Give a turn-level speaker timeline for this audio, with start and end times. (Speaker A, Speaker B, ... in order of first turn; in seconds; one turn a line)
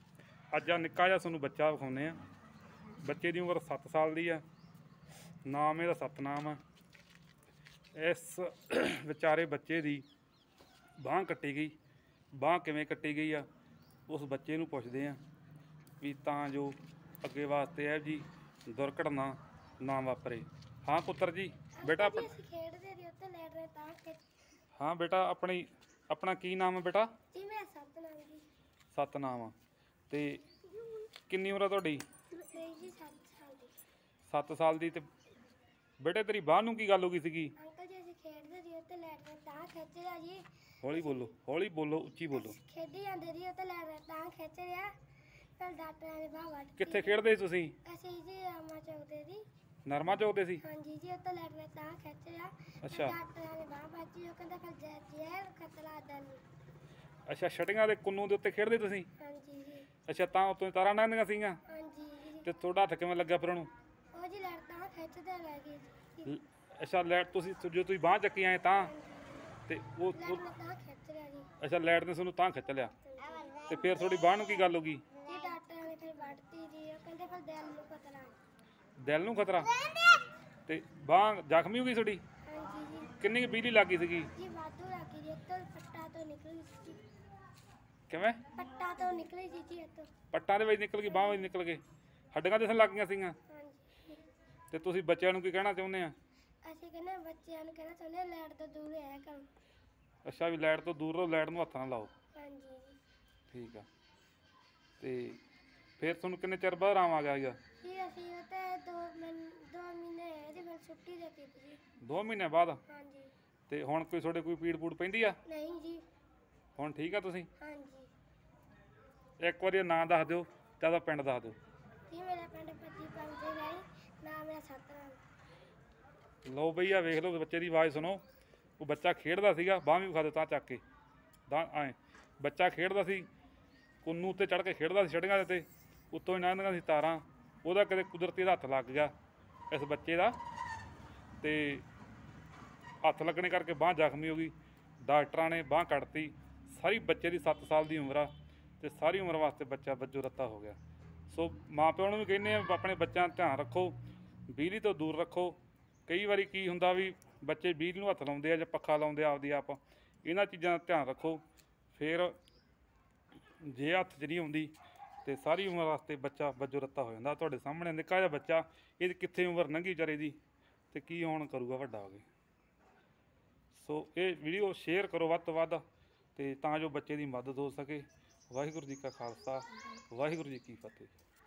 Speaker A: 0.5-2.2
Speaker A: 3.0-4.4
Speaker A: 5.5-6.6
Speaker A: 7.9-10.0
Speaker A: 11.0-11.8
Speaker A: 12.3-13.4
Speaker A: 14.1-15.2
Speaker A: 16.0-22.3
Speaker B: 21.8-24.2
Speaker A: 24.8-27.1
Speaker B: 27.3-28.5
Speaker A: 28.9-29.5
Speaker A: 30.1-30.4
Speaker A: 31.3-32.0
Speaker B: 32.4-33.7
Speaker A: 34.3-35.1
Speaker A: 36.0-37.5
Speaker B: 37.6-41.3
Speaker A: 40.8-42.5
Speaker B: 42.3-44.9
Speaker B: 45.6-47.2
Speaker A: 46.8-47.8
Speaker B: 47.8-49.4
Speaker A: 49.8-50.6
Speaker B: 50.6-56.4
Speaker A: 52.8-53.1
Speaker A: 57.3-59.1
Speaker B: 59.2-59.9
Speaker A: 60.0-61.6
Speaker B: 61.7-62.5
Speaker A: 62.4-63.7
Speaker B: 64.1-66.3
Speaker A: 66.2-68.9
Speaker B: 68.7-69.5
Speaker A: 69.7-70.4
Speaker B: 70.1-71.5
Speaker A: 71.6-72.9
Speaker B: 73.0-73.7
Speaker A: 73.7-75.0
Speaker B: 75.2-78.4
Speaker A: 79.0-79.7
Speaker A: 80.7-82.2
Speaker B: 82.5-83.2
Speaker A: 83.2-84.3
Speaker B: 84.3-87.0
Speaker A: 88.1-88.4
Speaker B: 88.5-90.1
Speaker A: 90.3-91.8
Speaker A: 92.3-93.4
Speaker B: 93.5-94.2
Speaker A: 94.7-96.1
Speaker B: 96.6-99.5
Speaker A: 100.2-102.1
Speaker B: 102.3-103.0
Speaker A: 103.5-103.8
Speaker A: 105.0-105.4
Speaker A: 106.0-107.6
Speaker B: 107.8-111.8
Speaker A: 112.0-112.8
Speaker B: 112.9-113.3
Speaker A: 113.7-115.4
Speaker B: 115.4-116.0
Speaker A: 116.8-117.5
Speaker B: 117.6-118.1
Speaker A: 119.4-121.6
Speaker B: 122.1-125.2
Speaker A: 126.5-128.2
Speaker A: 128.8-130.8
Speaker A: 131.5-133.3
Speaker A: 134.0-139.1
Speaker A: 139.7-140.4
Speaker A: 141.4-141.8
Speaker A: 143.0-150.8
Speaker A: 151.3-154.0
Speaker A: 154.5-161.4
Speaker A: 161.9-162.4
Speaker A: 163.6-170.4
Speaker A: 170.9-172.3
Speaker A: 173.7-175.8
Speaker A: 176.3-181.1